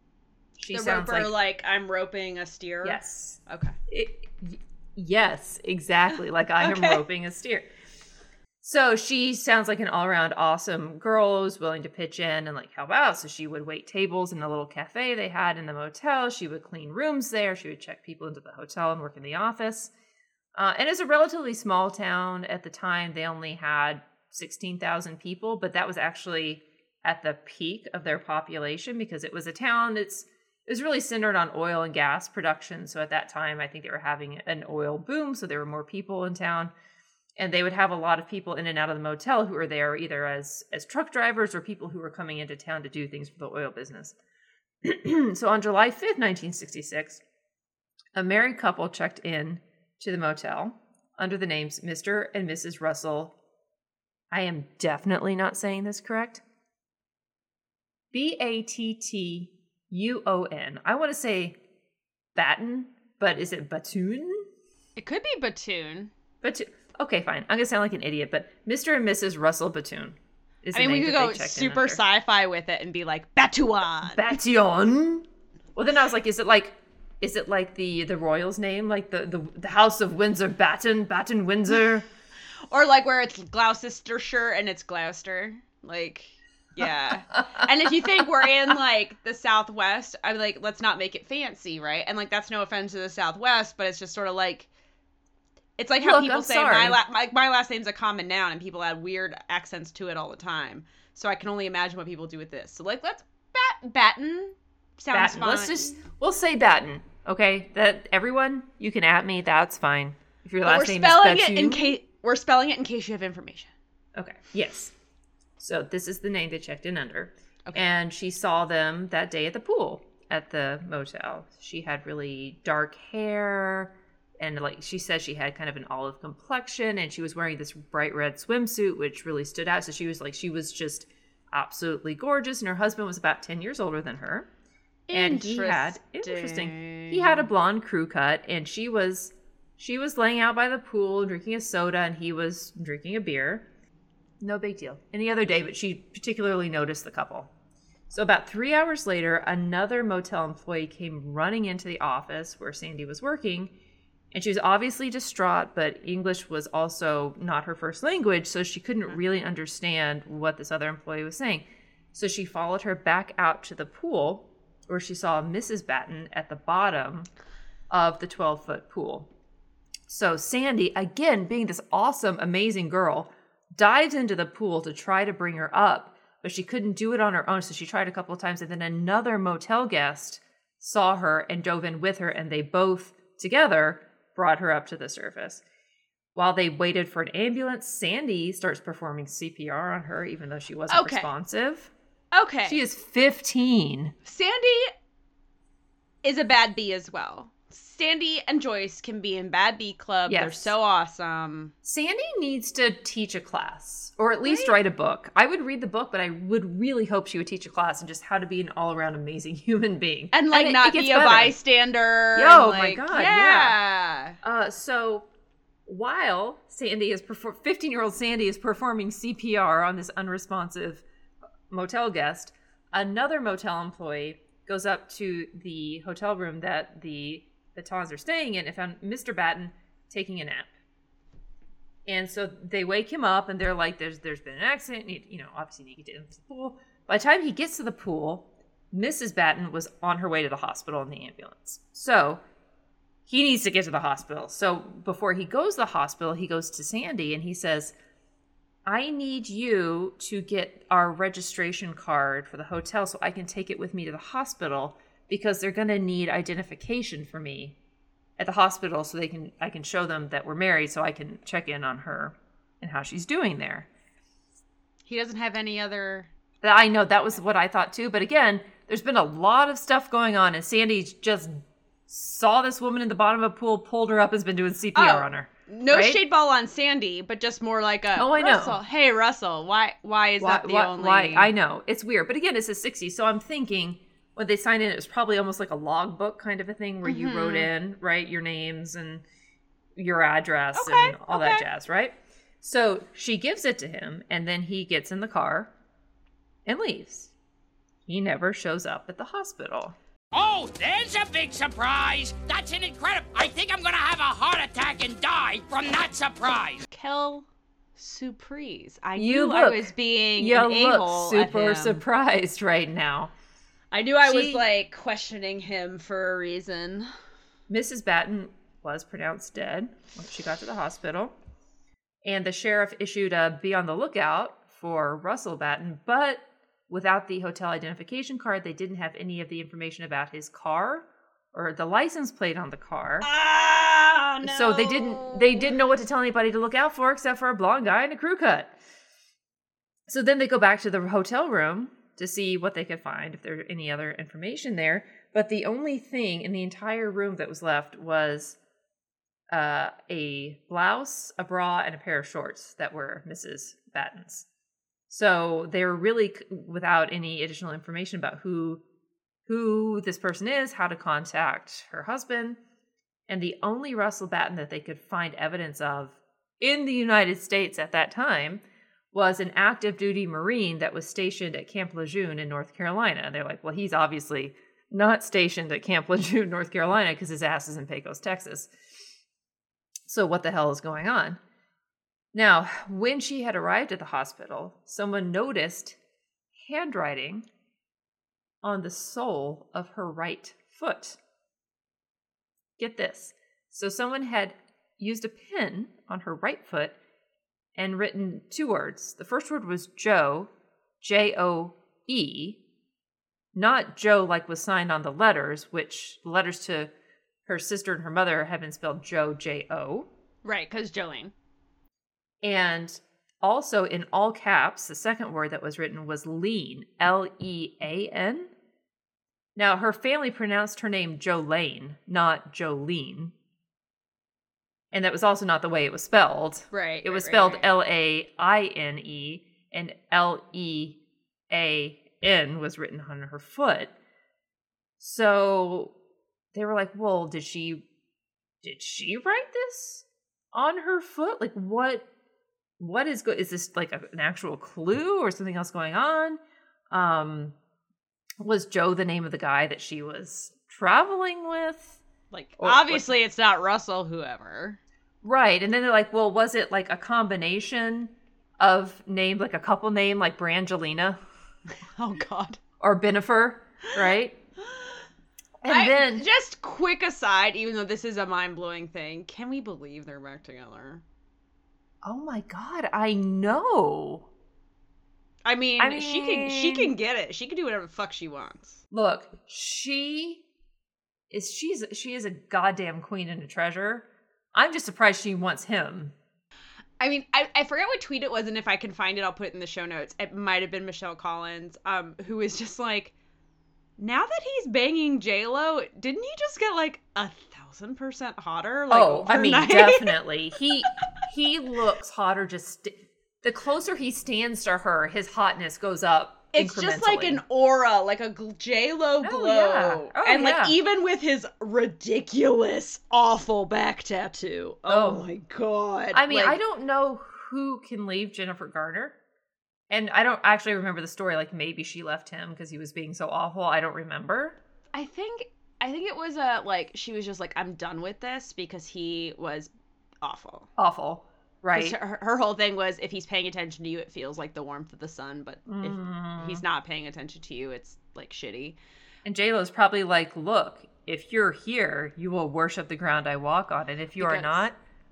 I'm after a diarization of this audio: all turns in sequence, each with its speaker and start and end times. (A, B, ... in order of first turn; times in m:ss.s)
0:00.6-0:01.3 A
0:00.7-0:03.8 B
0:02.8-0:07.6 A
0:06.6-0:07.0 B
0:08.6-0:19.9 A
0:20.6-0:36.7 A
0:37.4-0:44.2 A
0:44.8-0:47.2 A
0:48.2-0:53.3 A
0:54.3-0:56.4 A
0:58.1-1:01.6 A
1:02.4-1:04.4 A
1:05.0-1:06.1 B
1:06.4-1:12.0 A
1:10.7-1:14.2 B
1:14.1-1:22.0 A
1:22.7-1:34.7 B
1:35.8-1:46.0 B
1:36.0-1:37.0 A
1:45.1-1:51.9 A
1:50.6-1:53.7 B
1:54.2-1:54.9 A
1:55.6-2:14.5 A
2:15.1-2:17.5 B
2:15.1-2:23.6 A
2:24.4-2:27.5 A
2:28.1-2:33.7 A
2:34.3-2:47.3 A
2:47.9-2:49.3 A
2:50.1-3:05.6 A
3:06.4-3:11.9 A
3:10.9-3:11.3 B
3:12.3-3:12.8 B
3:12.6-3:14.1 A
3:14.2-3:14.9 B
3:16.2-3:21.7 B
3:20.3-3:20.7 A
3:21.8-3:31.6 A
3:24.4-3:24.7 B
3:30.3-3:34.4 B
3:32.3-3:33.8 A
3:34.4-3:35.2 A
3:35.9-3:41.0 A
3:41.7-3:50.7 A
3:52.1-4:02.4 A
4:03.3-4:07.9 A
4:08.9-4:17.8 A
4:18.4-4:23.9 A
4:25.0-4:26.3 B
4:26.6-4:36.2 A
4:34.9-4:41.5 B
4:38.1-4:38.8 A
4:40.4-4:49.2 A
4:47.0-4:47.7 B
4:50.0-4:55.7 A
4:50.7-4:51.7 B
4:56.6-4:57.3 A
4:58.1-5:00.0 A
5:00.3-5:06.8 C
5:06.9-5:12.0 B
5:09.2-5:13.3 A
5:13.9-5:17.1 B
5:14.2-5:14.6 A
5:17.7-5:21.3 A
5:22.2-5:33.3 A
5:33.2-5:35.7 B
5:34.4-5:38.7 A
5:40.1-5:48.6 A
5:49.5-5:54.4 A
5:55.1-5:58.8 A
5:59.4-6:02.6 A
6:03.3-6:08.6 A
6:09.1-6:18.7 A
6:20.1-6:21.4 A
6:22.3-6:26.0 A
6:26.6-6:27.4 A
6:28.6-6:31.2 A
6:32.8-6:37.0 A
6:37.8-6:40.5 A
6:41.0-6:42.6 A
6:43.5-6:46.9 A
6:47.4-6:50.1 A
6:50.4-6:51.3 B
6:52.4-6:58.5 A
6:59.6-7:03.3 A
7:04.9-7:11.0 A
7:06.7-7:07.7 B
7:11.5-7:13.9 A
7:15.0-7:15.9 A
7:16.5-7:17.8 A
7:18.6-7:22.0 A
7:22.8-7:26.4 A
7:26.9-7:27.5 A
7:28.4-7:32.0 A
7:32.3-7:34.8 B
7:32.6-7:33.1 A
7:35.2-7:41.2 A
7:41.7-7:42.6 B
7:42.8-7:44.4 A
7:44.6-7:45.0 B
7:45.6-7:46.2 A
7:45.7-7:51.0 B
7:52.0-7:54.3 A
7:55.4-7:58.8 B
7:55.8-7:56.9 A
7:58.9-8:00.4 A
8:01.3-8:06.1 A
8:07.0-8:13.1 B
8:14.0-8:20.2 B
8:18.9-8:27.4 A
8:26.5-8:36.6 B
8:29.2-8:30.8 A
8:34.9-8:35.3 A
8:36.1-8:39.2 A
8:39.9-8:44.6 A
8:44.9-8:50.7 B
8:50.8-8:52.0 A
8:51.7-8:58.8 B
8:55.7-8:56.6 A
8:59.2-9:04.7 A
9:04.2-9:04.7 B